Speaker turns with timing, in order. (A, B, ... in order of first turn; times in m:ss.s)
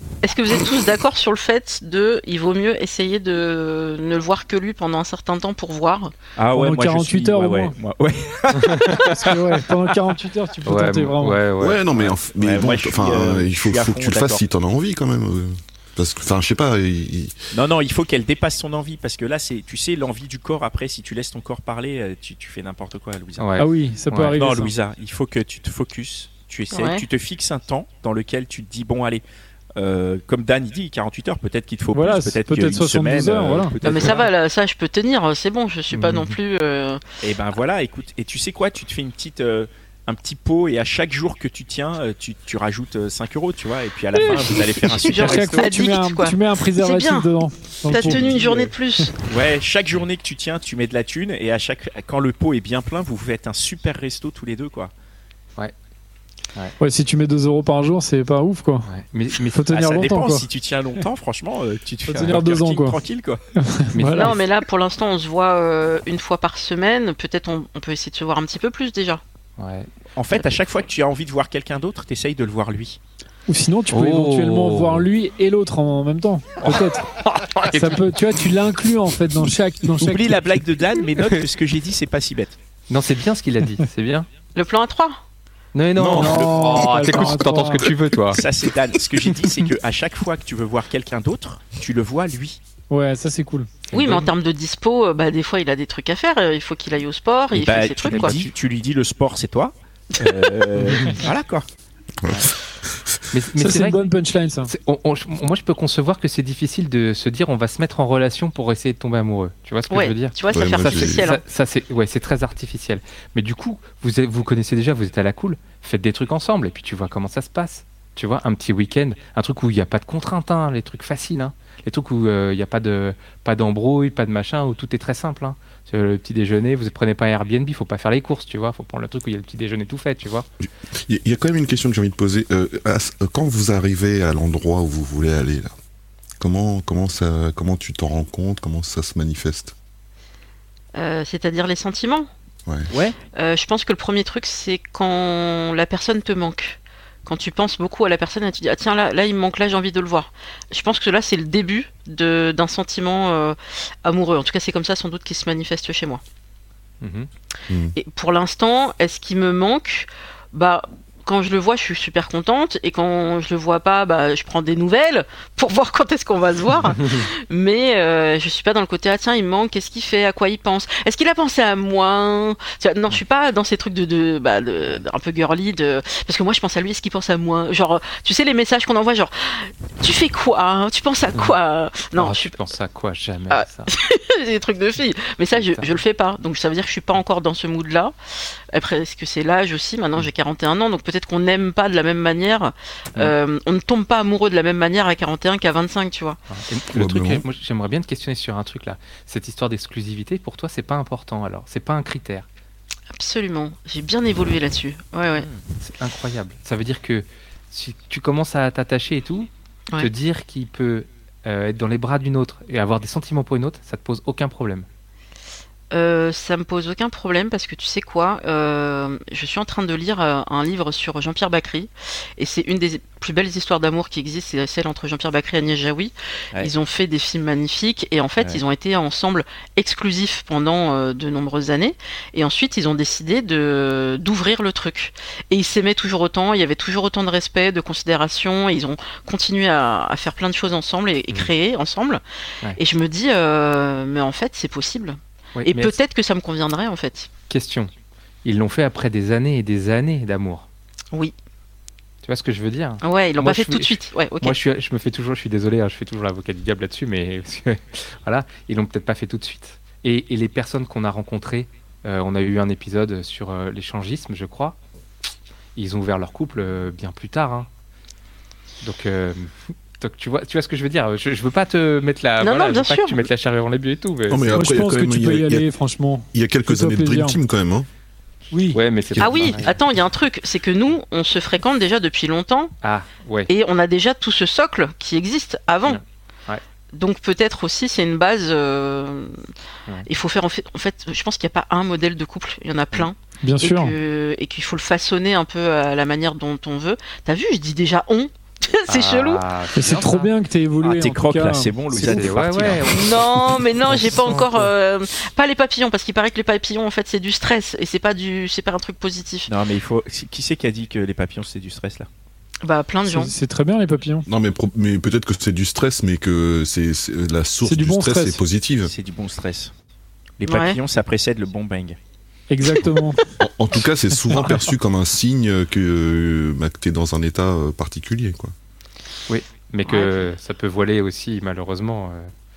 0:00.2-0:06.1 A
0:06.4-0:09.6 B
0:06.5-0:07.7 C
0:08.6-0:09.1 D
0:09.1-0:11.4 C
0:10.6-0:12.2 D
0:11.6-0:17.4 E
0:12.4-0:14.4 B
0:17.5-0:23.6 B
0:23.4-0:24.4 D
0:23.6-0:24.7 C
0:24.3-0:29.2 B
0:26.7-0:27.0 A
0:29.8-0:34.3 B
0:31.9-0:33.8 C
0:33.8-0:37.0 A
0:35.9-0:36.3 D
0:37.2-0:45.9 B
0:44.2-0:47.3 A
0:45.1-0:49.1 C
0:47.9-0:49.2 A
0:47.9-0:48.6 B
0:49.2-0:54.9 B
0:56.8-0:58.9 C
0:58.9-0:59.8 D
0:59.5-1:00.5 C
0:59.7-1:03.4 B
1:02.1-1:03.0 C
1:03.6-1:04.4 C
1:03.9-1:04.4 D
1:04.1-1:09.2 A
1:09.6-1:09.9 D
1:10.2-1:13.0 B
1:13.5-1:17.1 C
1:13.9-1:15.1 D
1:16.6-1:18.0 D
1:17.7-1:20.4 C
1:20.0-1:22.6 B
1:22.9-1:24.3 D
1:24.6-1:25.2 A
1:25.7-1:28.4 D
1:26.0-1:26.3 E
1:26.0-1:27.2 B
1:26.1-1:27.9 C
1:28.3-1:32.6 B
1:32.9-1:33.8 C
1:33.9-1:38.4 A
1:34.0-1:34.3 D
1:37.5-1:41.7 B
1:38.0-1:38.5 D
1:42.2-1:42.5 E
1:43.3-1:44.0 D
1:43.6-1:44.7 C
1:44.7-2:10.4 D
1:49.9-1:51.4 A
1:50.5-1:51.3 E
2:10.9-2:15.7 E
2:16.4-2:19.7 E
2:20.9-2:22.3 A
2:22.9-2:23.2 B
2:23.3-2:36.2 A
2:37.0-2:37.3 D
2:37.7-2:38.0 E
2:38.0-3:02.6 A
2:47.0-2:47.2 D
3:02.2-3:03.9 D
3:03.5-3:08.1 A
3:05.5-3:06.0 D
3:08.7-3:16.4 A
3:16.5-3:22.4 D
3:16.9-3:17.4 E
3:23.1-3:25.5 A
3:25.8-3:34.8 D
3:35.9-4:02.2 A
4:02.8-4:07.3 A
4:05.6-4:05.9 D
4:07.5-4:07.9 D
4:08.4-4:10.6 D
4:12.2-4:24.8 D
4:13.0-4:14.6 A
4:25.8-4:27.7 D
4:28.8-4:34.6 D
4:32.4-4:33.2 A
4:34.3-4:35.7 E
4:34.5-4:37.4 C
4:36.3-4:37.9 E
4:38.5-4:38.8 C
4:38.7-4:39.7 D
4:39.1-4:39.7 E
4:39.2-4:42.7 A
4:42.8-4:43.5 D
4:43.5-4:46.0 A
4:45.8-4:46.6 D
4:46.9-4:49.4 A
4:50.1-4:59.4 A
4:53.4-4:54.0 C
4:58.9-5:00.3 D
4:59.7-5:02.2 C
5:00.8-5:02.9 B
5:01.9-5:04.6 D
5:02.8-5:09.5 A
5:09.5-5:12.1 B
5:12.6-5:13.3 A
5:13.1-5:14.3 C
5:14.3-5:18.9 E
5:17.6-5:18.4 C
5:18.8-5:19.7 B
5:20.4-5:22.0 B
5:20.5-5:20.8 A
5:22.5-5:23.2 C
5:23.4-5:28.5 E
5:29.3-5:32.3 D
5:29.8-5:30.2 A